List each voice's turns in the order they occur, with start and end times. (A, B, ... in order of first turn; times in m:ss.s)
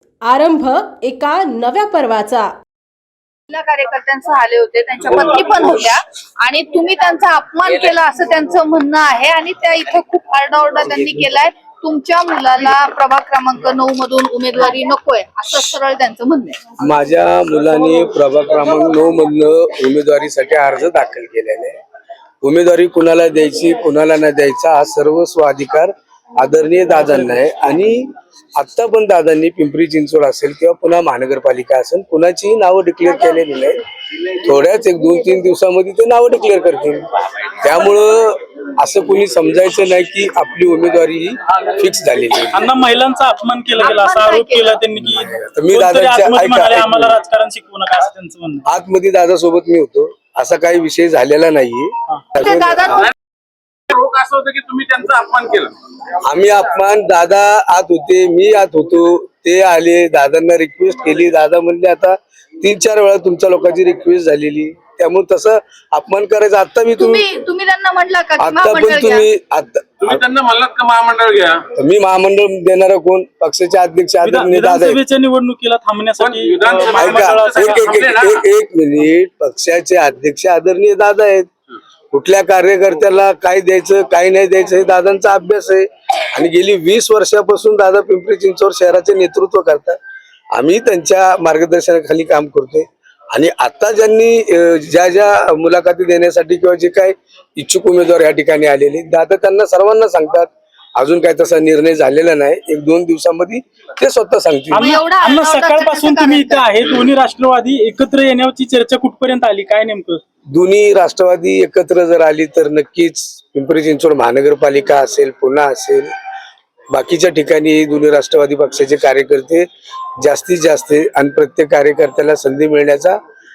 0:00.2-0:02.5 A
0:03.5-0:16.6 B
0:16.8-0:21.8 C
0:22.4-0:33.8 C
0:34.4-0:37.0 C
0:37.6-0:42.7 C
0:42.5-0:48.6 D
0:43.8-0:44.8 B
0:45.1-0:47.2 C
0:48.7-0:53.0 C
0:52.4-0:53.1 B
0:53.9-0:55.8 E
0:56.2-1:07.2 C
1:07.0-1:09.3 B
1:08.4-1:10.2 C
1:10.0-1:11.6 E
1:11.8-1:15.0 C
1:14.2-1:17.9 D
1:16.2-1:18.4 E
1:16.9-1:21.5 C
1:22.1-1:30.0 C
1:30.5-1:44.9 C
1:44.7-1:50.2 D
1:44.8-1:46.8 B
1:50.5-1:56.1 C
1:56.9-1:59.7 C
2:00.2-2:03.2 C